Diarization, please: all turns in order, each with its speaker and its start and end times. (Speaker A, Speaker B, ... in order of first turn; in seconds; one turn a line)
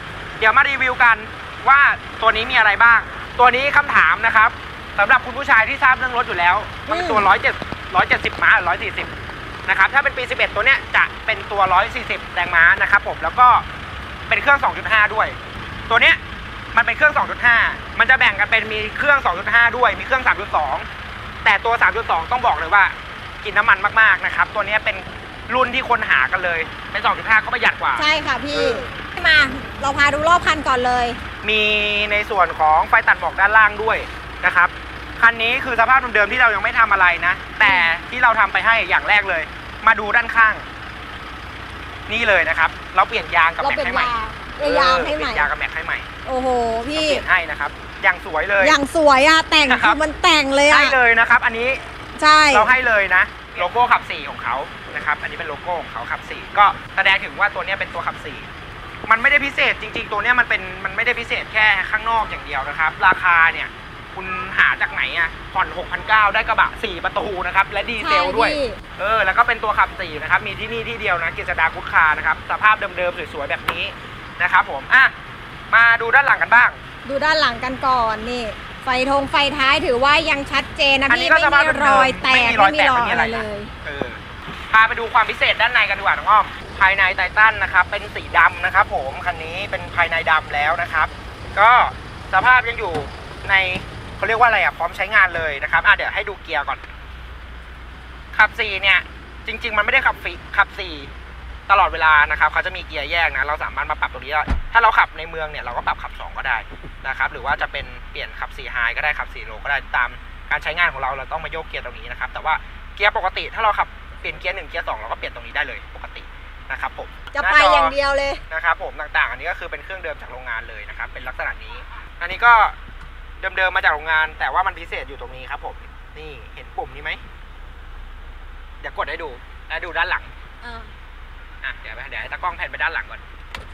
Speaker A: 0.4-9.1
Speaker B: 6.9-7.3
Speaker A: 9.7-13.7
Speaker A: 14.3-15.4
Speaker A: 15.9-16.2
Speaker A: 16.7-20.9
Speaker A: 21.4-28.9
Speaker B: 27.9-31.2
Speaker A: 31.4-40.6
Speaker B: 37.6-37.9
Speaker A: 42.1-46.1
Speaker B: 43.6-45.5
Speaker B: 46.2-47.2
Speaker A: 46.9-48.8
Speaker B: 48.6-51.0
Speaker A: 49.7-50.0
Speaker A: 50.7-51.8
Speaker B: 52.2-52.7
Speaker A: 52.5-58.5
Speaker A: 59.1-75.1
Speaker B: 68.0-68.8
Speaker A: 75.7-76.8
Speaker B: 77.0-83.7
Speaker A: 81.1-84.2
Speaker A: 84.7-96.8
Speaker A: 98.3-101.1
Speaker A: 101.7-118.0
Speaker B: 117.3-118.4
Speaker A: 118.5-122.8
Speaker A: 123.4-127.2
Speaker A: 128.8-130.3
Speaker B: 130.6-130.9
Speaker A: 131.6-133.2